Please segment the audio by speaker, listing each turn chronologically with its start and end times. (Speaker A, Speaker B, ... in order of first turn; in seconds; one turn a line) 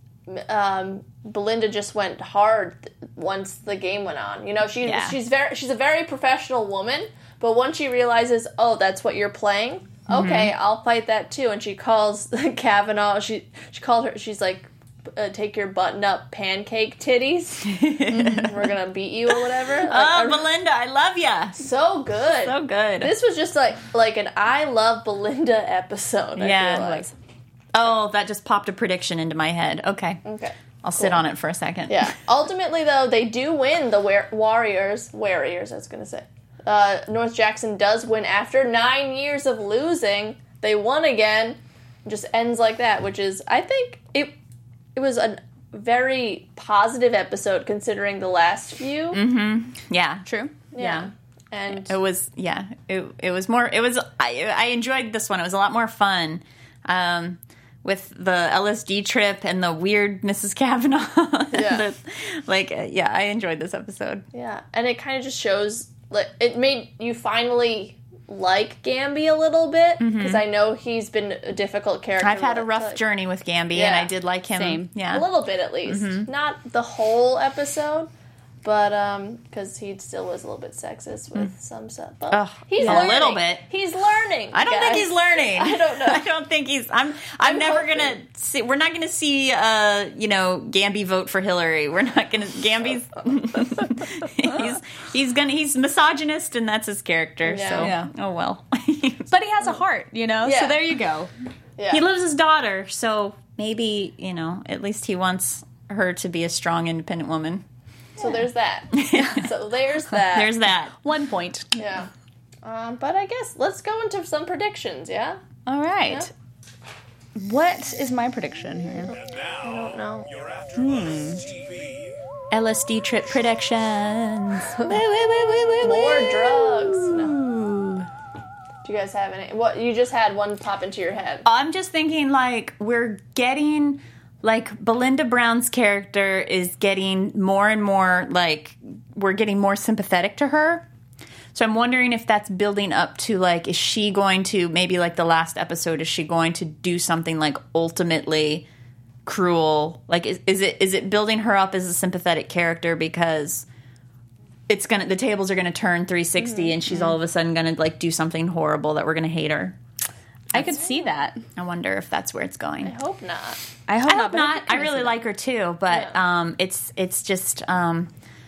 Speaker A: 0.3-20.5
Speaker B: 4.8-5.1
Speaker B: 10.1-10.5
Speaker B: 17.6-18.7
Speaker B: 19.3-21.6
Speaker A: 21.6-27.1
Speaker B: 22.3-23.1
Speaker B: 26.4-27.1
Speaker B: 27.7-30.2
Speaker A: 30.2-31.2
Speaker B: 30.8-32.1
Speaker A: 31.9-44.3
Speaker A: 44.9-49.2
Speaker B: 49.1-50.2
Speaker C: 50.2-50.6
Speaker A: 50.7-51.9
Speaker B: 50.8-51.1
Speaker B: 51.7-64.2
Speaker A: 61.5-61.8
Speaker A: 64.3-73.0
Speaker B: 70.0-70.4
Speaker B: 72.2-75.2
Speaker A: 73.7-74.1
Speaker C: 74.5-74.9
Speaker A: 75.1-78.1
Speaker B: 75.8-76.3
Speaker A: 78.6-86.2
Speaker B: 82.3-83.6
Speaker B: 84.5-99.3
Speaker A: 87.4-88.2
Speaker A: 97.4-97.9
Speaker C: 97.8-98.1
Speaker C: 99.3-101.3
Speaker A: 100.4-100.8
Speaker A: 101.8-102.0
Speaker B: 101.9-107.6
Speaker A: 108.2-110.5
Speaker B: 108.9-109.4
Speaker B: 110.3-111.0
Speaker C: 111.0-111.8
Speaker A: 111.8-112.1
Speaker A: 112.6-115.4
Speaker C: 115.7-116.3
Speaker C: 117.4-119.1
Speaker D: 119.3-119.6
Speaker A: 119.6-120.3
Speaker D: 120.3-122.0
Speaker C: 120.8-121.4
Speaker B: 122.5-128.0
Speaker A: 125.8-127.3
Speaker A: 128.8-131.4
Speaker B: 131.4-140.8
Speaker B: 141.5-148.7
Speaker B: 149.2-153.7
Speaker B: 154.7-159.8
Speaker A: 156.4-157.0
Speaker C: 160.5-161.4
Speaker B: 161.6-162.9
Speaker A: 162.8-163.6
Speaker C: 163.9-165.1
Speaker B: 164.0-168.1
Speaker A: 165.9-166.1